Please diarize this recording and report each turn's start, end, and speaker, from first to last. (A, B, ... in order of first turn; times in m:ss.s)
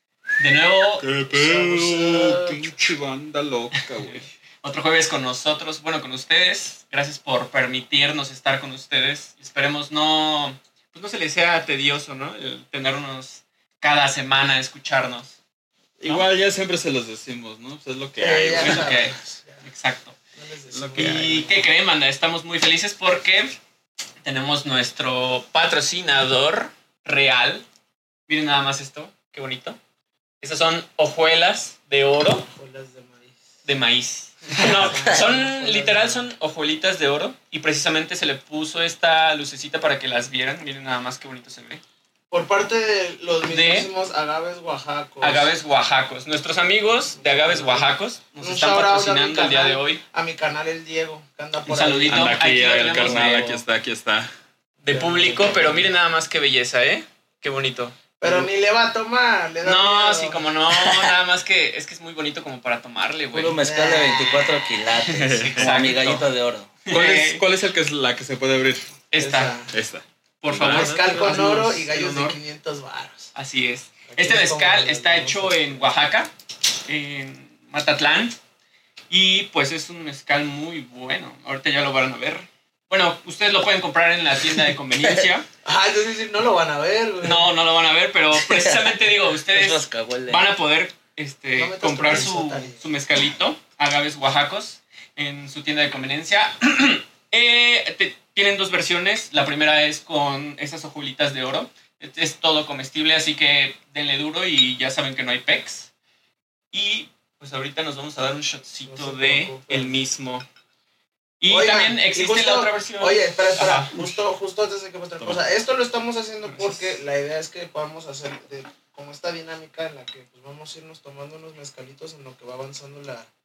0:00.4-0:01.1 A
0:01.0-0:04.3 B
0:01.3-0:02.7 C
0:04.0-0:15.4 A
0:16.0-0:19.0 B
0:18.2-0:19.6 C
0:18.5-0:20.2 A
0:20.4-0:21.6 C
0:20.7-0:21.6 B
0:21.0-0:23.6 A
0:24.2-0:27.6 A
0:28.3-0:29.8 A
0:30.4-0:32.5 A
0:32.5-0:33.4 C
0:33.7-0:41.8 A
0:34.6-0:36.2 C
0:42.3-0:45.5 C
0:43.5-0:43.9 A
0:45.2-0:50.0 A
0:47.1-0:52.4 C
0:51.6-0:53.4 A
0:52.1-0:54.3 B
0:52.9-0:53.6 D
0:54.8-0:58.0 A
0:54.9-0:55.9 C
0:58.2-1:01.1 C
0:59.6-1:03.6 A
1:03.3-1:06.8 D
1:03.6-1:04.9 C
1:05.0-1:05.8 B
1:05.4-1:06.3 A
1:06.9-1:07.4 A
1:06.9-1:08.9 B
1:09.1-1:09.6 A
1:09.2-1:09.7 C
1:09.7-1:11.1 B
1:10.4-1:12.4 A
1:10.5-1:13.3 C
1:13.4-1:16.3 A
1:14.1-1:15.8 C
1:16.9-1:18.4 A
1:19.1-1:25.5 A
1:25.6-1:27.5 C
1:27.2-1:45.9 A
1:28.4-1:30.5 D
1:31.6-1:32.9 C
1:46.7-1:50.5 A
1:48.8-1:50.0 C
1:51.4-1:54.0 A
1:51.5-2:03.3 C
1:56.4-1:57.0 A